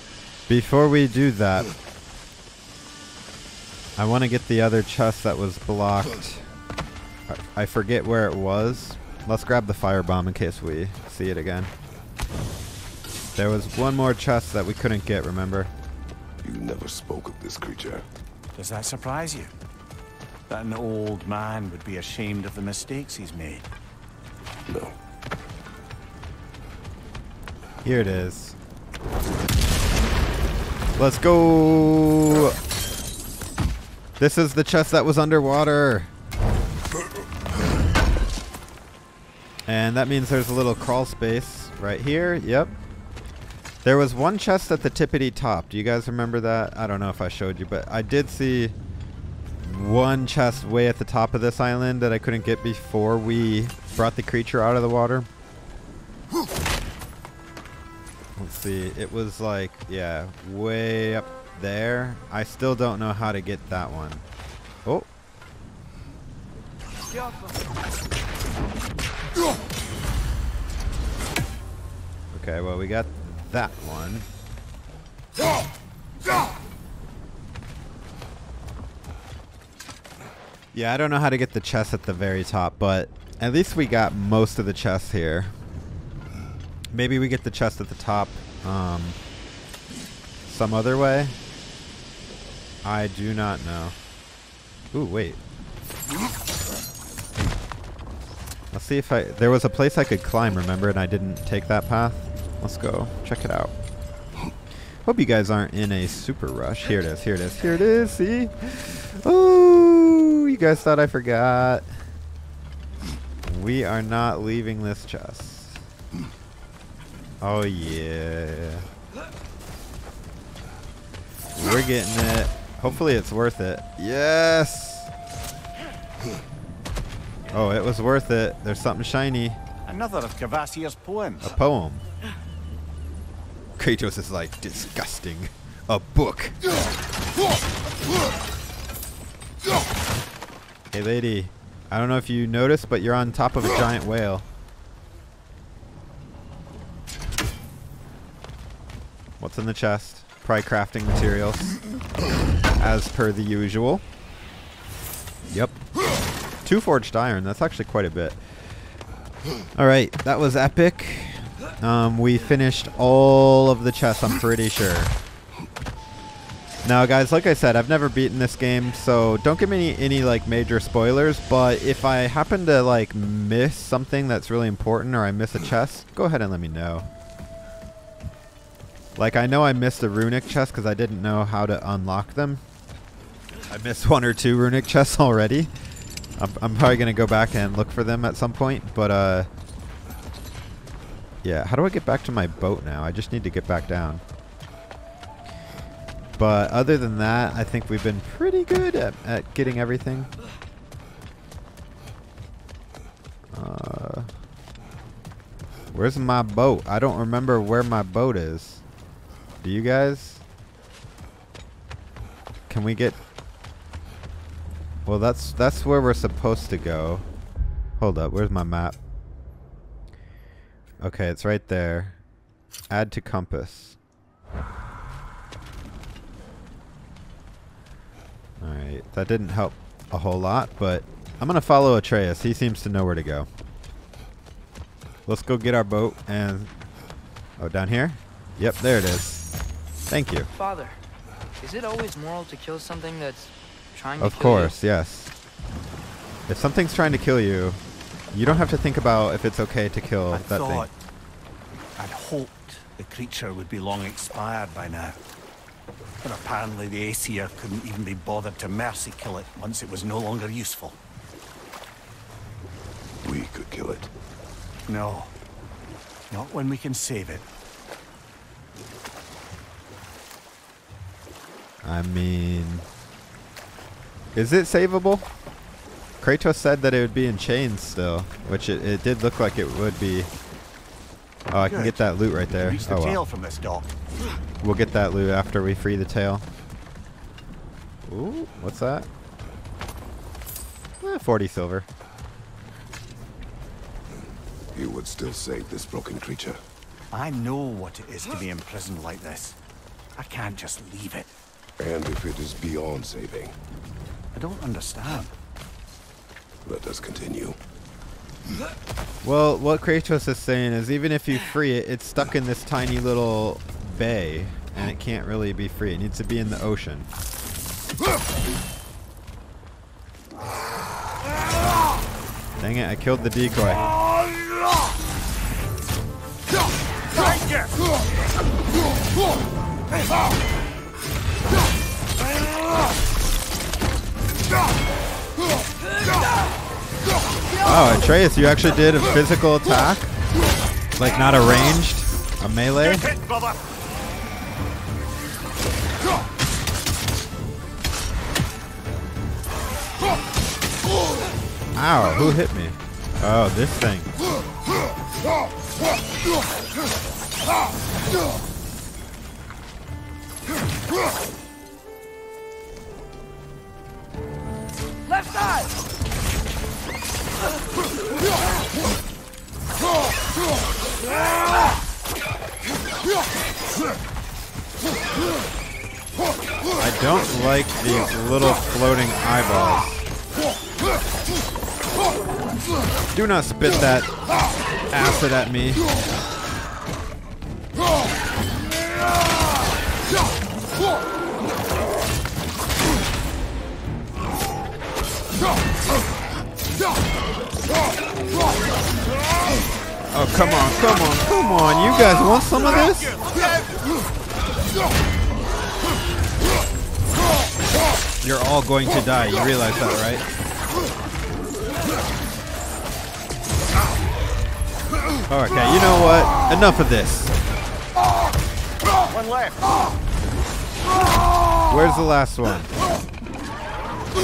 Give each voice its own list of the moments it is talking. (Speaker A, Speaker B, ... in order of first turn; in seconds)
Speaker A: 0.5-1.7, 4.0-6.5, 7.3-11.7, 13.3-15.7, 27.8-28.6, 30.9-32.6, 34.2-36.1, 39.7-42.7, 43.8-48.8, 49.6-55.3, 58.4-64.2, 72.3-74.3, 80.7-85.5, 86.9-89.2, 90.4-91.3, 92.8-94.0, 94.9-95.4, 98.7-103.7, 105.0-111.9, 113.5-115.8, 117.4-118.9, 121.5-125.1, 127.5-129.6, 131.4-132.0, 133.8-136.6, 140.9-144.4, 149.4-151.7, 152.8-154.0, 155.5-155.8, 156.6-158.4, 159.7-165.1, 166.8-177.1, 179.2-182.6, 183.7-185.7, 186.4-189.5, 191.4-194.2, 196.3-200.3, 203.5-204.3, 205.9-208.8, 209.6-210.4, 212.7-213.2, 215.1-217.2, 218.0-219.0, 221.0-222.2, 222.9-224.0, 228.6-233.5, 235.2-236.7, 237.6-239.5, 240.1-240.5, 244.2-245.3, 246.5-247.8, 248.3-250.9, 271.8-272.9, 274.3-275.3, 276.2-280.3, 281.5-283.2, 284.6-286.4, 288.1-289.1, 291.0-291.9, 309.2-317.1, 322.6-323.9, 337.6-340.1, 340.9-343.1, 351.8-354.1, 376.8-380.1, 383.1-384.2, 384.9-385.9, 400.1-403.2, 408.2-410.3, 415.3-417.4, 421.7-422.7
Speaker B: 16.4-18.1, 24.7-24.9, 263.2-264.1, 294.7-296.6, 301.8-303.6, 306.6-307.6
Speaker C: 18.6-19.5, 20.5-23.7, 129.9-131.6, 250.3-250.9, 252.0-255.2, 256.2-261.0, 264.9-265.3, 266.3-267.4, 281.5-283.9, 297.1-299.6, 300.2-301.3, 304.3-305.3, 327.1-327.8, 342.8-343.6, 402.6-403.8, 419.1-419.8
Speaker D: 240.5-241.0, 241.6-244.8, 365.1-365.7